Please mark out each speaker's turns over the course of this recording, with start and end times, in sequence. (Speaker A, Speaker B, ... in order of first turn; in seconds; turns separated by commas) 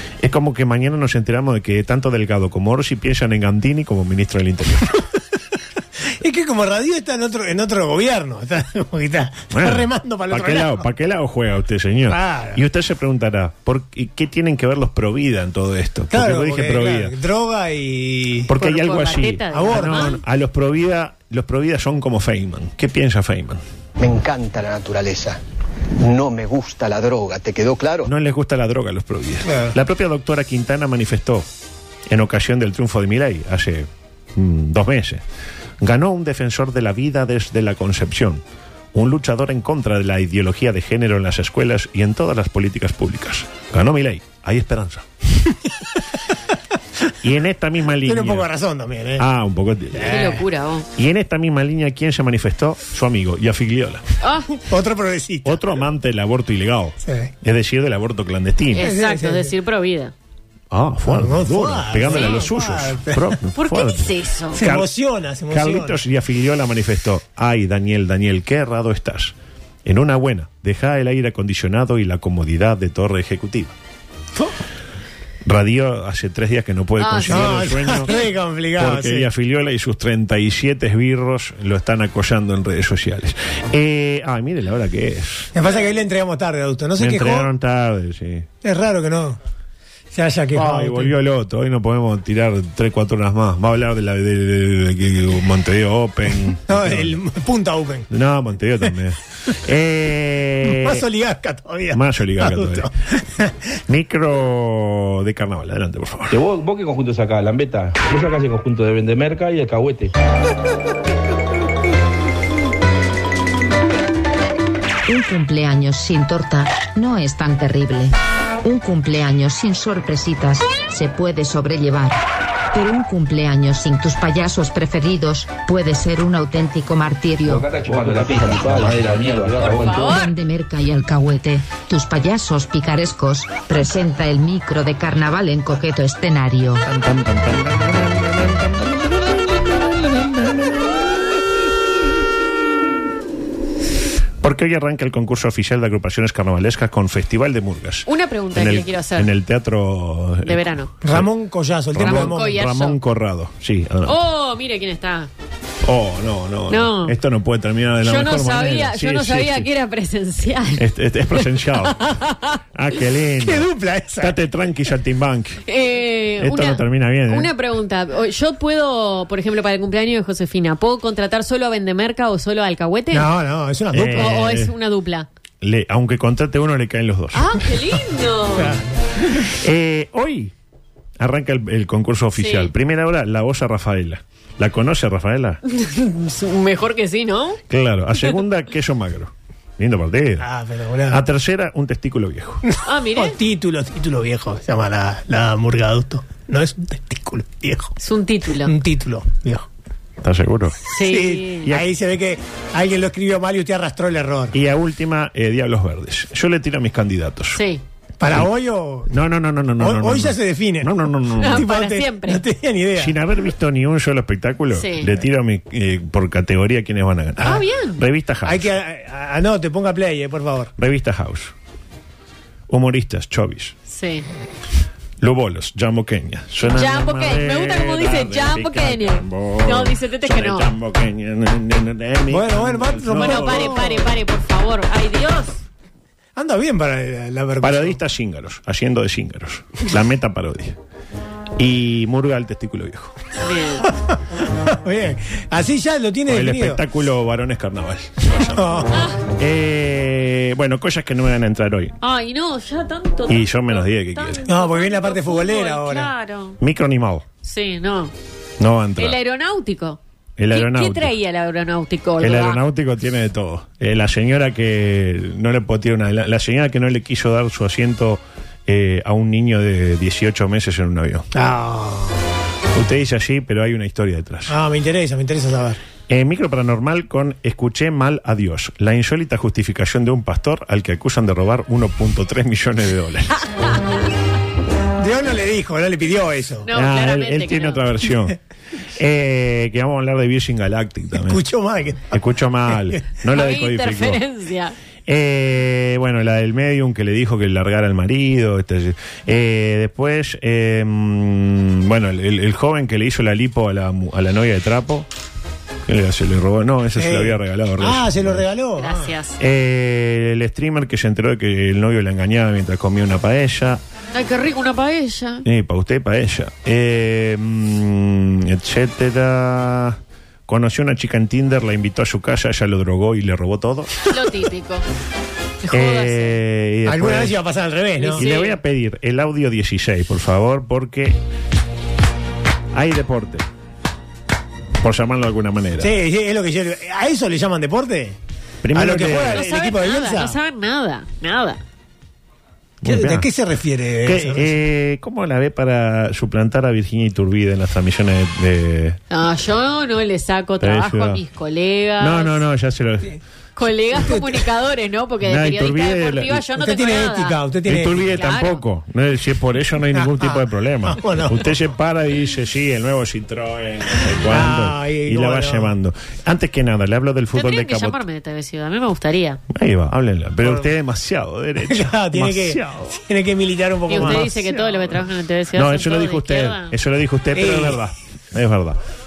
Speaker A: 0.2-4.9, Speaker B: 6.2-10.9, Speaker A: 9.5-17.1, Speaker B: 12.1-12.6, Speaker B: 16.1-18.5, Speaker A: 18.5-23.6, Speaker C: 18.6-20.2, Speaker B: 19.5-20.1, Speaker D: 24.0-25.4, Speaker D: 26.0-28.1, Speaker A: 28.1-31.5, Speaker A: 32.1-35.2, Speaker A: 35.8-38.4, Speaker A: 38.9-45.1, Speaker A: 47.2-48.5, Speaker B: 48.0-49.2, Speaker A: 49.2-50.3, Speaker B: 50.0-50.4, Speaker C: 50.0-50.9, Speaker A: 51.0-54.0, Speaker C: 54.2-54.5, Speaker B: 54.6-55.6, Speaker A: 55.5-58.9, Speaker B: 57.0-57.3, Speaker C: 58.7-60.1, Speaker B: 58.8-59.5, Speaker A: 60.7-64.9, Speaker B: 61.0-63.4, Speaker C: 62.1-62.5, Speaker C: 63.6-64.6, Speaker B: 64.5-66.0, Speaker A: 65.5-73.7, Speaker A: 75.4-78.2, Speaker C: 77.0-78.2, Speaker B: 77.3-79.3, Speaker A: 78.8-85.5, Speaker B: 85.5-87.5, Speaker A: 87.0-88.5, Speaker B: 88.6-89.4, Speaker B: 90.1-91.1, Speaker A: 90.5-97.2, Speaker B: 96.7-98.1, Speaker A: 98.1-101.0, Speaker B: 100.7-103.6, Speaker A: 101.9-102.9, Speaker A: 103.9-106.4, Speaker E: 106.3-110.1, Speaker F: 115.1-122.2, Speaker F: 122.7-127.7, Speaker E: 127.5-130.2, Speaker C: 129.7-130.3, Speaker F: 130.0-136.9, Speaker A: 136.8-139.0, Speaker A: 139.9-140.7, Speaker A: 144.4-151.3, Speaker C: 148.1-149.3, Speaker C: 150.4-150.9, Speaker B: 151.0-152.6, Speaker A: 151.9-154.2, Speaker C: 152.0-153.0, Speaker C: 154.1-155.3, Speaker A: 155.8-159.7, Speaker C: 156.7-157.2, Speaker C: 158.0-162.6, Speaker A: 160.8-162.2, Speaker A: 162.7-165.6, Speaker B: 163.4-164.4, Speaker C: 165.7-173.3, Speaker A: 166.4-167.5, Speaker B: 173.1-174.4, Speaker A: 173.9-174.7, Speaker C: 174.0-175.3, Speaker A: 175.6-177.6, Speaker C: 177.3-178.8, Speaker B: 178.5-178.9, Speaker A: 179.6-180.5, Speaker A: 181.2-185.6, Speaker C: 182.4-182.7, Speaker C: 185.7-187.6, Speaker A: 187.7-190.5, Speaker B: 190.4-191.2, Speaker A: 191.1-192.7, Speaker B: 192.7-197.9, Speaker C: 192.8-193.4, Speaker C: 198.0-198.7, Speaker B: 198.6-199.7, Speaker A: 200.2-200.9, Speaker C: 200.9-201.7, Speaker B: 201.0-204.6, Speaker A: 201.6-201.9, Speaker A: 204.5-207.6, Speaker C: 207.5-207.8, Speaker B: 208.2-209.1, Speaker A: 209.1-211.7, Speaker B: 209.8-213.2, Speaker C: 211.4-212.4, Speaker A: 213.0-218.7, Speaker C: 214.7-215.1, Speaker C: 217.4-218.0, Speaker B: 218.4-220.7, Speaker A: 220.8-221.5, Speaker A: 222.7-223.8, Speaker C: 223.9-224.3, Speaker A: 225.2-233.9, Speaker C: 226.6-230.7, Speaker B: 232.3-234.1, Speaker C: 233.2-235.6, Speaker B: 236.4-238.0, Speaker A: 237.6-240.8, Speaker A: 241.6-243.2, Speaker C: 243.4-243.9, Speaker B: 243.9-246.8, Speaker A: 246.3-248.8, Speaker B: 248.5-249.0, Speaker C: 248.9-249.2, Speaker A: 249.3-252.0, Speaker C: 252.0-256.6, Speaker A: 253.3-254.5, Speaker B: 254.5-256.1, Speaker A: 256.6-257.2, Speaker C: 257.4-258.1, Speaker A: 258.6-259.2, Speaker C: 259.0-260.0, Speaker A: 260.4-261.1, Speaker C: 260.5-262.6, Speaker A: 262.2-271.3, Speaker B: 271.3-272.2, Speaker A: 272.7-274.6, Speaker B: 274.5-275.8, Speaker A: 276.1-283.7, Speaker B: 285.0-286.7, Speaker C: 286.6-287.9, Speaker A: 286.7-288.4, Speaker A: 289.0-291.4, Speaker B: 291.2-293.0, Speaker A: 292.1-294.2, Speaker C: 293.3-294.8, Speaker A: 295.1-305.1, Speaker A: 305.9-308.5, Speaker B: 307.0-309.1, Speaker C: 308.8-309.4, Speaker A: 309.4-313.8, Speaker C: 314.1-315.4, Speaker A: 315.4-324.1, Speaker C: 324.1-324.8, Speaker C: 325.6-326.4, Speaker A: 325.7-327.4, Speaker B: 326.9-328.3, Speaker C: 328.0-328.6, Speaker A: 328.2-331.2, Speaker A: 332.7-333.5, Speaker A: 334.8-335.9, Speaker B: 335.8-338.2, Speaker A: 338.6-339.5, Speaker B: 338.7-340.4, Speaker C: 339.2-341.6, Speaker A: 342.8-343.3, Speaker B: 342.8-344.5, Speaker A: 344.0-349.0, Speaker C: 349.1-352.4, Speaker A: 350.6-351.2, Speaker A: 352.0-353.2, Speaker C: 353.6-357.4, Speaker B: 353.9-354.4, Speaker A: 355.2-356.5, Speaker B: 356.5-358.0, Speaker A: 357.7-368.0, Speaker C: 358.0-358.6, Speaker B: 360.0-361.5, Speaker B: 364.3-365.7, Speaker C: 367.3-369.4, Speaker A: 369.5-373.0, Speaker B: 370.4-370.7, Speaker B: 371.6-374.3, Speaker C: 373.9-376.7, Speaker A: 373.9-375.0, Speaker A: 375.5-378.8, Speaker B: 377.4-377.8